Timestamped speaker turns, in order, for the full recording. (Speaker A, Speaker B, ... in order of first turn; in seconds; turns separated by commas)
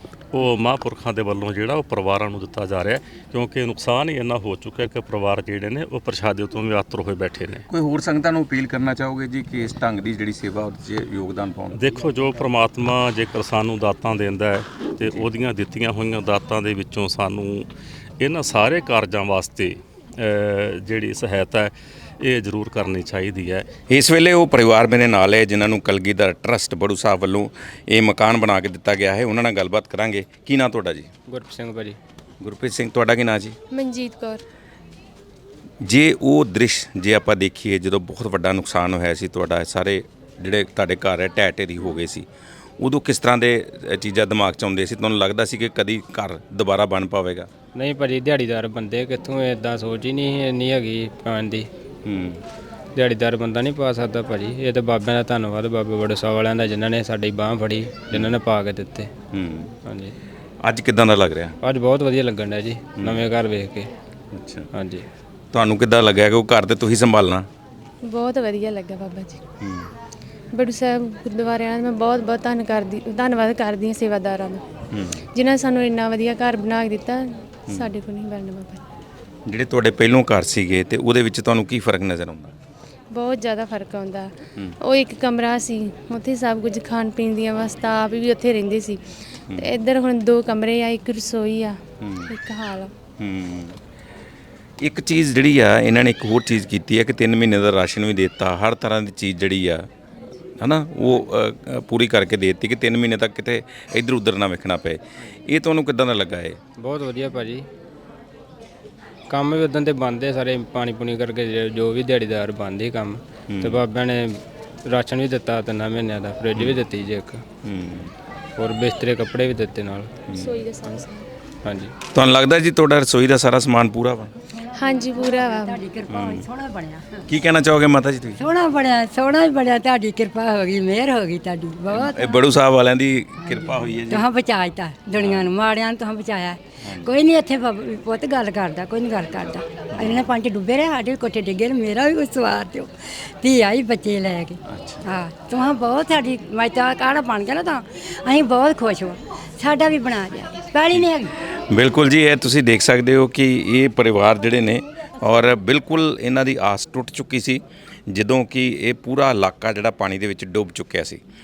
Speaker A: 0.3-7.7, Speaker B: 7.7-11.9, Speaker A: 11.8-17.7, Speaker A: 18.2-23.7, Speaker B: 23.9-31.1, Speaker C: 31.3-32.0, Speaker B: 32.4-33.6, Speaker D: 33.7-34.4, Speaker B: 35.8-42.3, Speaker B: 42.8-47.5, Speaker C: 47.8-51.7, Speaker B: 52.1-52.4, Speaker C: 53.0-59.1, Speaker B: 59.3-59.7, Speaker C: 59.9-60.1, Speaker B: 60.6-61.6, Speaker C: 61.6-63.9, Speaker B: 64.3-64.7, Speaker C: 64.7-65.1, Speaker B: 65.5-67.5, Speaker D: 68.0-69.4, Speaker B: 69.6-69.9, Speaker D: 70.5-74.6, Speaker B: 74.9-75.3, Speaker D: 75.3-78.8, Speaker B: 79.5-82.5, Speaker D: 83.1-89.0, Speaker D: 89.5-92.9, Speaker B: 92.0-92.3, Speaker B: 93.2-93.8, Speaker B: 94.8-99.9, Speaker B: 100.6-106.6, Speaker C: 106.8-107.7, Speaker C: 109.3-117.4, Speaker B: 113.5-113.8, Speaker B: 117.6-118.1, Speaker C: 118.6-120.1, Speaker B: 120.3-120.5, Speaker D: 120.3-121.3, Speaker C: 121.7-121.9, Speaker B: 122.1-124.3, Speaker D: 124.7-125.8, Speaker E: 125.0-127.2, Speaker B: 126.1-126.5, Speaker B: 127.3-128.4, Speaker E: 128.4-132.3, Speaker B: 131.9-134.3, Speaker E: 133.4-151.3, Speaker B: 135.1-135.5, Speaker B: 136.8-137.1, Speaker B: 139.9-140.4, Speaker B: 144.7-145.1, Speaker B: 150.9-161.2